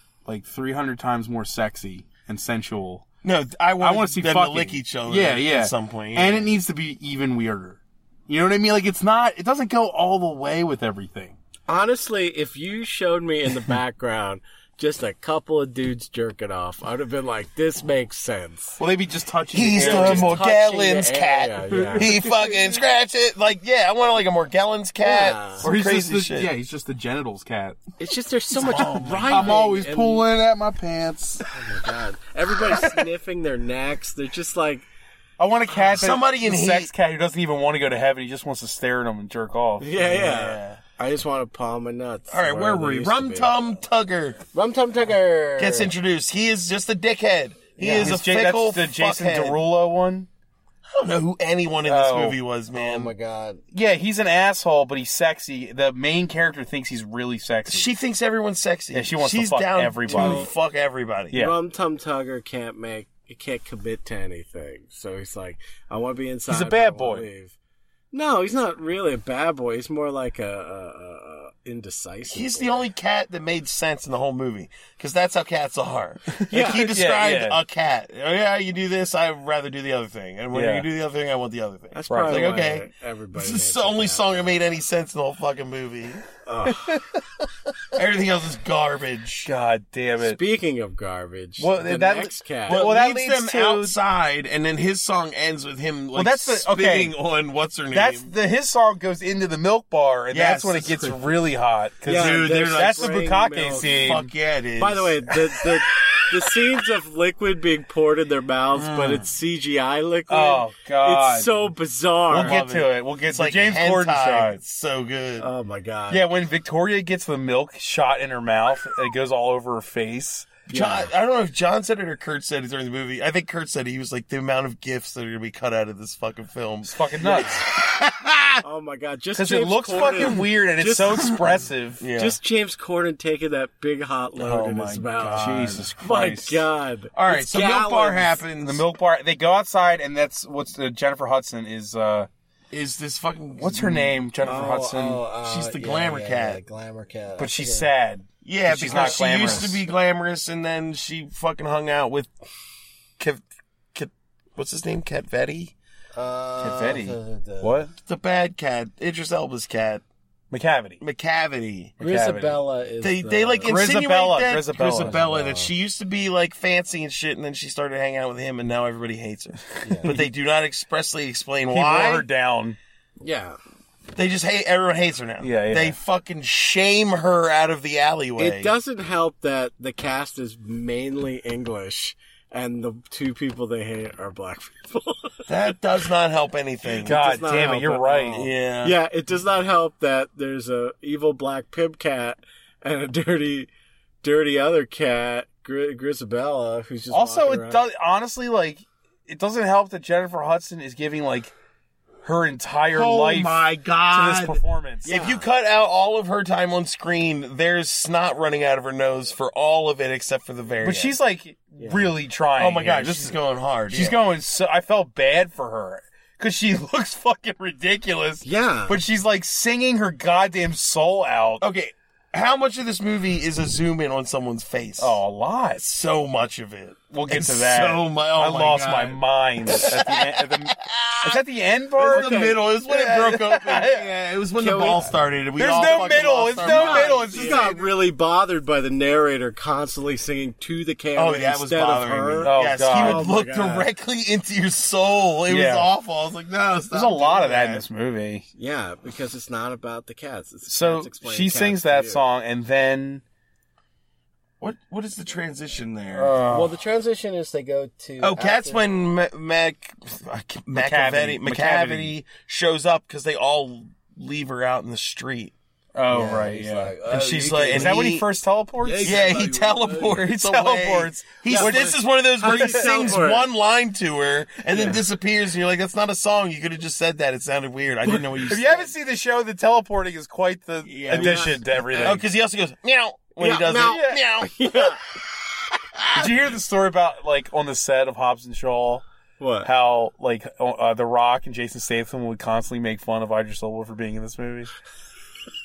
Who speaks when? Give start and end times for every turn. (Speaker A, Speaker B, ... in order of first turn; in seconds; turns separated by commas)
Speaker A: 0.2-3.0, Speaker B: 3.2-6.5, Speaker A: 3.8-11.3, Speaker C: 11.7-18.8, Speaker A: 18.8-20.4, Speaker B: 19.5-26.5, Speaker C: 19.7-22.1, Speaker A: 21.7-22.6, Speaker C: 25.0-25.6, Speaker A: 25.6-27.8, Speaker C: 28.0-30.2, Speaker B: 28.5-29.6, Speaker A: 29.3-31.4, Speaker C: 31.5-34.9, Speaker A: 35.4-39.9, Speaker B: 35.8-36.9, Speaker C: 39.8-43.5, Speaker B: 40.0-40.8, Speaker B: 42.3-44.4, Speaker C: 44.5-45.9, Speaker B: 45.6-49.6, Speaker A: 47.8-50.3, Speaker C: 47.8-48.1, Speaker B: 50.9-53.1, Speaker A: 51.9-52.4, Speaker C: 52.7-53.6, Speaker A: 53.7-57.9, Speaker B: 57.7-61.4, Speaker A: 58.9-60.5, Speaker C: 60.1-60.5, Speaker C: 61.3-67.5, Speaker A: 66.5-67.3, Speaker C: 68.1-72.8, Speaker B: 72.3-86.2, Speaker C: 76.5-76.8, Speaker A: 76.5-77.6, Speaker A: 80.5-80.9, Speaker C: 81.9-84.5, Speaker A: 82.1-82.6, Speaker C: 86.5-87.0, Speaker B: 87.9-89.5, Speaker A: 89.4-90.4, Speaker C: 90.2-92.8, Speaker A: 91.6-94.0, Speaker B: 92.7-98.3, Speaker A: 96.1-97.1, Speaker A: 97.9-104.3, Speaker B: 100.3-101.3, Speaker C: 102.0-104.2, Speaker B: 102.1-103.2, Speaker B: 103.8-105.2, Speaker C: 104.8-112.6, Speaker B: 108.8-109.2, Speaker A: 110.3-111.6, Speaker A: 112.3-114.6, Speaker B: 112.3-115.5, Speaker C: 115.4-116.2, Speaker A: 116.1-120.6, Speaker B: 120.7-128.6, Speaker C: 120.7-121.1, Speaker A: 126.8-127.6, Speaker C: 127.2-127.6, Speaker C: 128.6-131.4, Speaker A: 129.3-132.0, Speaker B: 132.0-132.4, Speaker C: 132.2-138.4, Speaker A: 134.4-136.6, Speaker B: 135.2-135.9, Speaker B: 137.1-138.8, Speaker A: 138.6-142.3, Speaker B: 142.7-144.2, Speaker A: 143.6-145.2, Speaker C: 144.4-147.9, Speaker B: 145.4-146.6, Speaker A: 147.4-149.8, Speaker B: 148.4-152.3, Speaker B: 153.9-155.7, Speaker C: 156.2-157.8, Speaker A: 156.6-157.9, Speaker B: 158.0-160.0, Speaker A: 160.5-161.0, Speaker B: 161.0-161.9, Speaker A: 162.0-162.6, Speaker C: 162.0-163.9, Speaker B: 163.0-172.2, Speaker A: 163.6-165.2, Speaker C: 164.9-165.7, Speaker C: 169.8-170.1, Speaker A: 171.7-172.8, Speaker C: 173.2-173.6, Speaker B: 174.1-178.7, Speaker A: 175.4-176.0, Speaker C: 178.4-185.5, Speaker B: 185.5-187.2, Speaker A: 187.0-188.4, Speaker C: 187.0-193.7, Speaker B: 188.3-189.0, Speaker C: 194.2-197.8, Speaker A: 197.1-201.5, Speaker A: 202.2-205.1, Speaker B: 202.9-211.2, Speaker C: 205.0-205.4, Speaker A: 210.8-213.3, Speaker C: 211.8-212.1, Speaker B: 212.6-214.2, Speaker A: 213.9-221.6, Speaker C: 218.4-219.0, Speaker B: 221.6-225.2, Speaker A: 225.0-225.9, Speaker B: 225.8-231.4, Speaker A: 227.1-234.0, Speaker B: 232.0-237.8, Speaker C: 232.1-232.6, Speaker C: 234.6-235.1, Speaker A: 235.6-237.8, Speaker C: 236.6-243.9, Speaker B: 241.1-247.8, Speaker A: 242.4-243.3, Speaker A: 245.5-245.9, Speaker A: 246.9-248.4, Speaker C: 248.6-252.2, Speaker A: 250.7-253.2, Speaker B: 254.6-256.4, Speaker A: 256.1-256.7, Speaker C: 256.4-258.8, Speaker B: 258.2-265.5, Speaker A: 260.7-262.1, Speaker A: 265.9-269.5, Speaker C: 266.1-268.1, Speaker B: 267.1-268.2, Speaker C: 268.8-270.2, Speaker B: 269.0-278.9, Speaker A: 270.2-273.2, Speaker C: 271.4-273.5, Speaker C: 274.7-275.0, Speaker A: 278.1-282.2, Speaker B: 280.8-284.7, Speaker C: 281.1-282.1, Speaker C: 283.4-285.0, Speaker A: 283.8-284.2, Speaker A: 286.1-289.0, Speaker C: 289.4-289.7, Speaker A: 289.6-294.7